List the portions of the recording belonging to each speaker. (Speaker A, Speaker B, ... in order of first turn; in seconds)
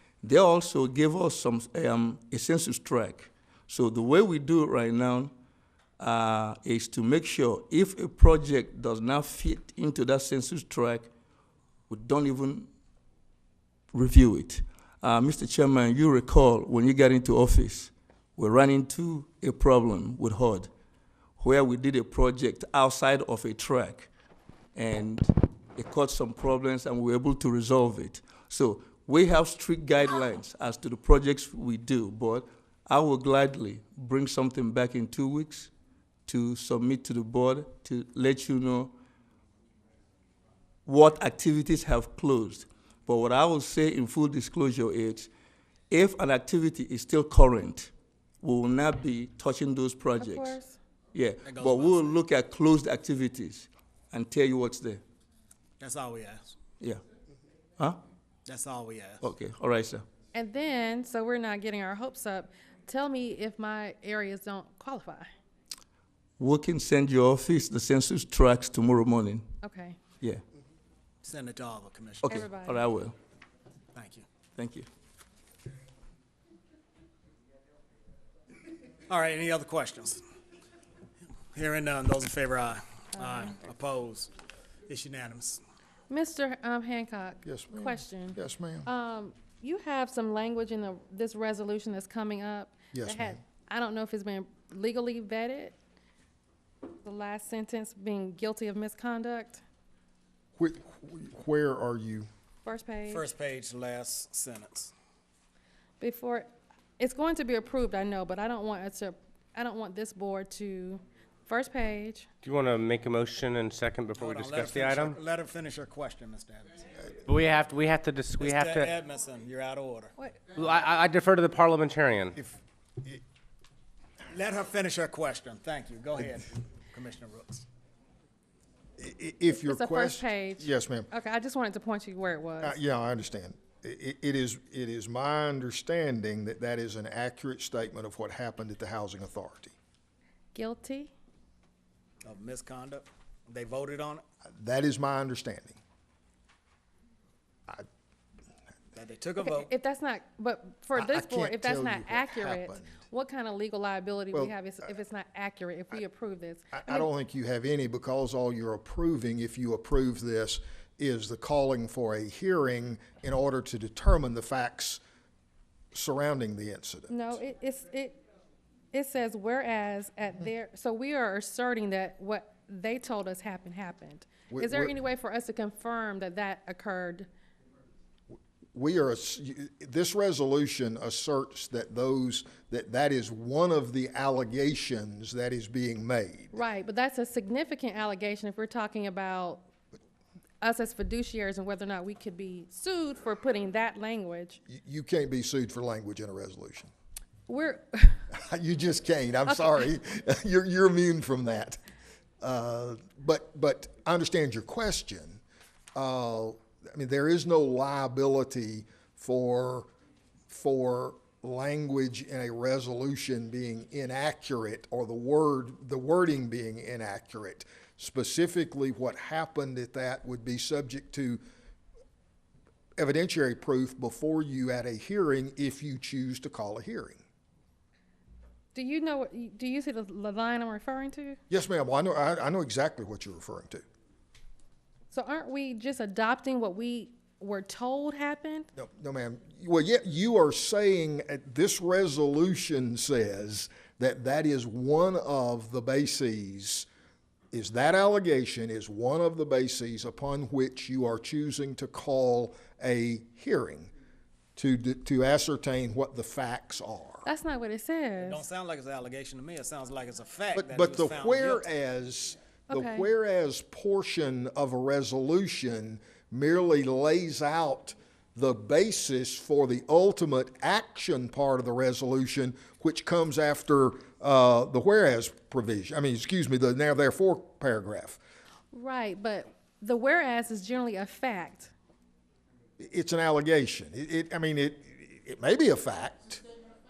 Speaker A: 0.2-5.3, 6.0-11.1, 11.9-12.7, 13.9-20.7, 21.4-24.1, 24.7-35.7, 36.2-38.9, 40.9-45.3, 45.9-50.6, 51.1-55.0, 59.2-60.0, 66.4-69.5, 72.2-73.1, 74.5-74.9
Speaker B: 50.2-50.8, 60.3-65.3, 69.6-70.0, 72.3-72.8, 86.1-95.8, 97.0-99.6, 102.6-103.3, 106.0-106.5, 107.0-112.3, 120.2-120.5, 129.5-132.8, 140.5-141.1, 149.4-157.1, 167.1-168.2, 168.9-177.3, 186.5-189.6, 190.6-194.6, 197.5-198.2, 228.7-231.4, 235.1-238.7, 257.2-258.4, 262.7-263.1, 278.7-281.7
Speaker C: 51.4-52.1, 55.8-56.4, 58.5-59.2, 71.2-72.3, 73.9-74.2, 79.1-80.2, 81.5-84.3, 84.9-85.6, 103.1-104.9, 114.2-116.8, 118.4-120.1, 124.3-127.7, 142.2-144.2, 148.9-149.7, 258.2-261.6
Speaker D: 87.4-88.9, 92.9-93.4, 100.6-102.3, 122.4-123.2, 129.0-131.1, 132.6-139.7, 144.5-145.8, 150.9-153.0, 156.7-165.0, 165.9-167.4, 174.5-174.9, 178.7-186.6, 194.7-196.9, 198.3-201.8, 202.4-205.4, 205.9-209.9, 210.5-221.4, 223.0-227.2, 231.5-233.8, 238.8-246.9, 247.5-253.9, 254.6-257.2, 260.5-278.2, 282.8-286.4
Speaker E: 112.4-115.2, 117.3-118.9, 120.5-122.3